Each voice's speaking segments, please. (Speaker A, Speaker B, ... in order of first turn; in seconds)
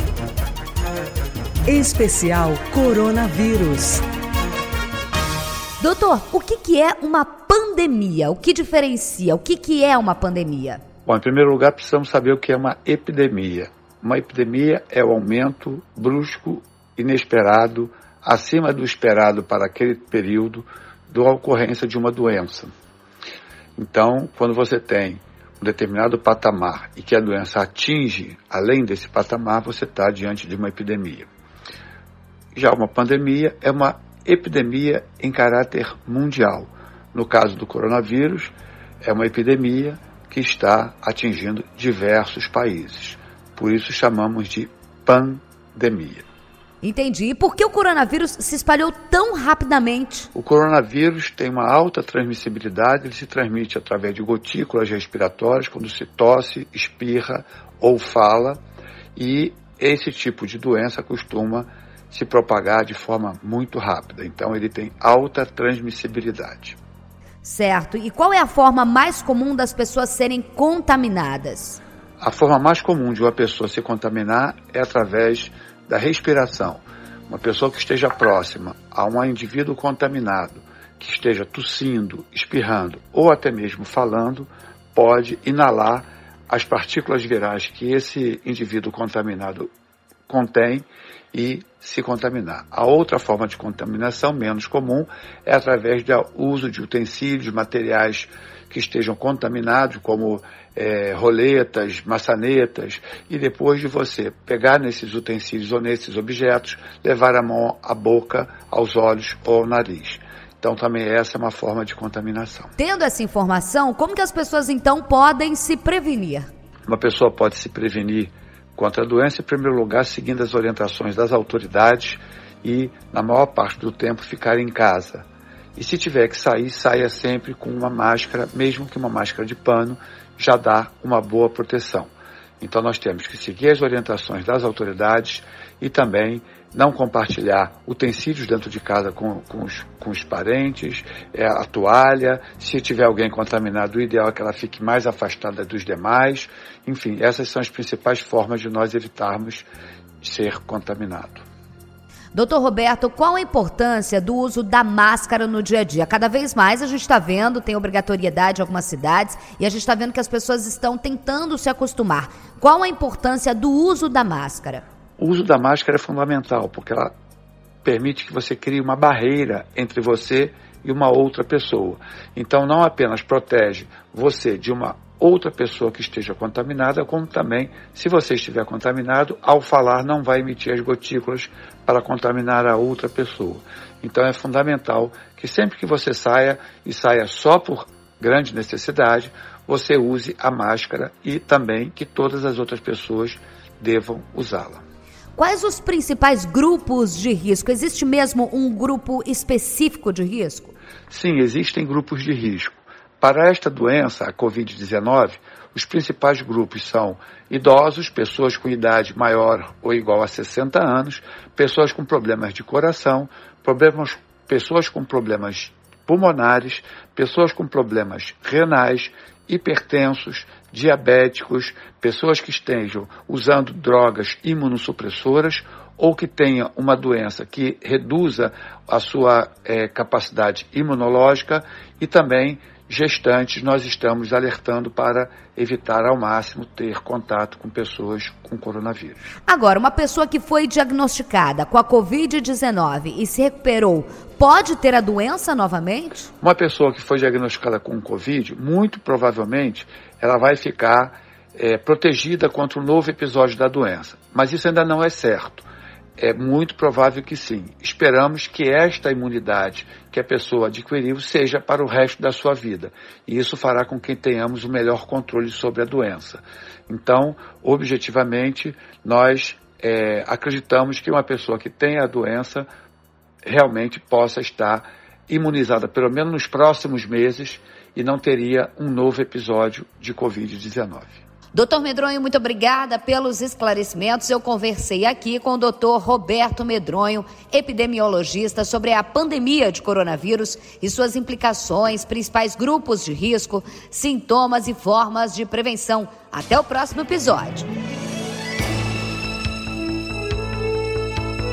Speaker A: 1.7-4.0
Speaker B: 5.8-10.8, 46.8-50.3, 67.4-71.8, 112.8-116.5, 152.3-164.8, 195.4-200.7, 239.5-246.3, 281.5-297.7
Speaker C: 11.1-22.7, 23.8-31.3, 32.5-46.2, 50.3-58.6, 59.2-66.8, 72.2-89.7, 90.3-112.7, 116.9-149.7, 150.2-151.4, 165.2-167.1, 167.8-194.8, 201.1-239.3, 246.4-255.7, 256.2-272.7, 273.4-281.2